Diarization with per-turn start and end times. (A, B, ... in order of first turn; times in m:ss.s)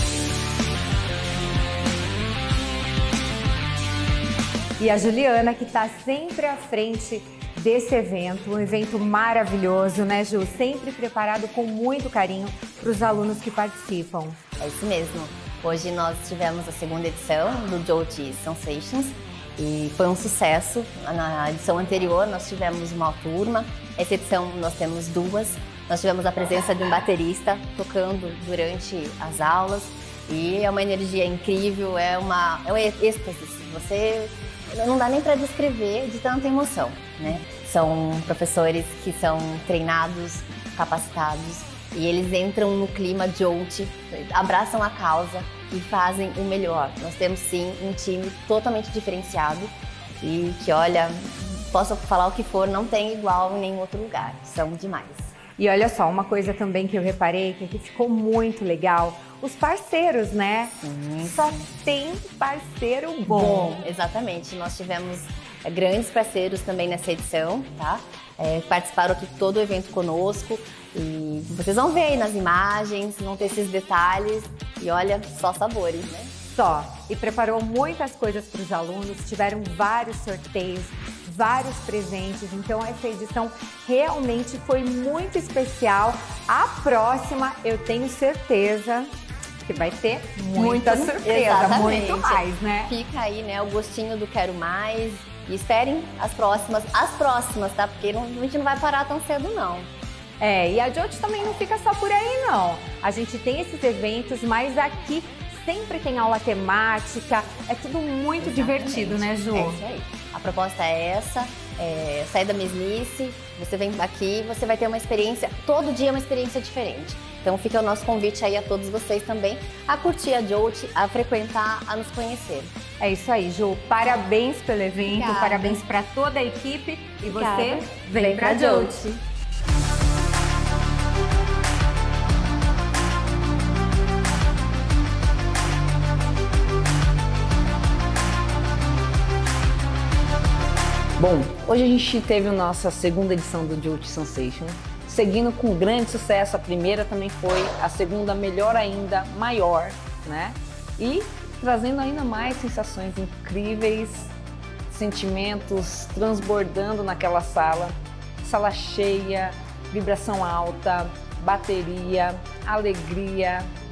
0:04.8-0:14.4 A
0:14.6-0:55.4 B
0:55.6-1:03.7 A
1:00.8-1:01.7 B
1:03.3-1:16.3 B
1:16.5-1:29.1 A
1:29.6-1:32.9 A
1:30.5-1:39.9 B
1:40.4-1:49.8 A
1:48.4-2:02.7 B
2:03.0-2:09.1 A
2:05.0-2:05.8 B
2:07.2-2:09.2 B
2:21.2-2:34.3 C
2:34.9-2:43.7 C